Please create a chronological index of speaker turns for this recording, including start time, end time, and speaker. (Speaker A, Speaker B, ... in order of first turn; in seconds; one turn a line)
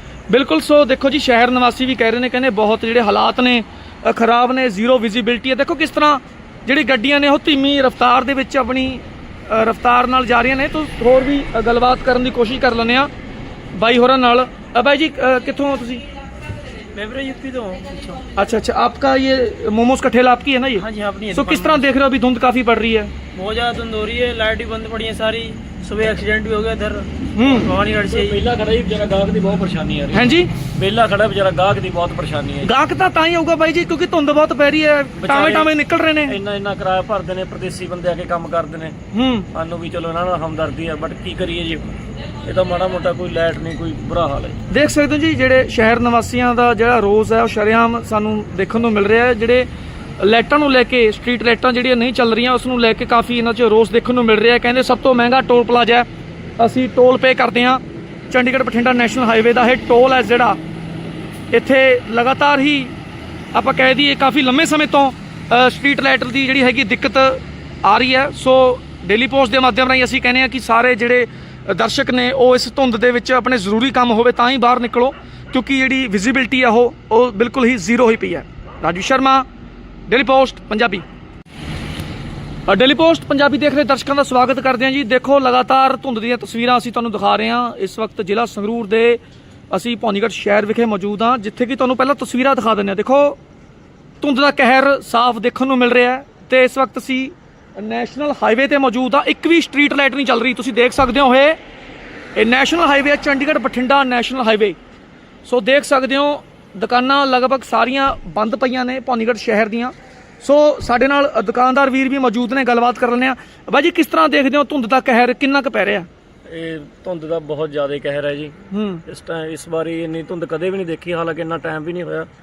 Speaker A: 0.3-13.1
Speaker A: 13.8-16.0
Speaker B: 16.9-18.2
Speaker A: 18.4-23.1
Speaker B: 20.8-21.9
Speaker B: 23.3-28.4
Speaker A: 27.4-27.7
Speaker C: 28.0-32.7
Speaker A: 30.1-30.5
Speaker A: 32.6-36.4
Speaker C: 35.2-35.7
Speaker C: 36.2-39.0
Speaker A: 39.1-39.5
Speaker C: 39.5-44.6
Speaker A: 44.7-49.7
Speaker A: 50.2-56.1
Speaker A: 56.6-60.6
Speaker A: 61.5-62.9
Speaker A: 63.5-79.4
Speaker A: 80.1-81.0
Speaker A: 82.7-89.2
Speaker A: 89.7-93.4
Speaker A: 94.2-101.6
Speaker A: 102.3-104.8
Speaker A: 105.4-116.1
Speaker C: 116.5-122.3
Speaker A: 118.7-119.0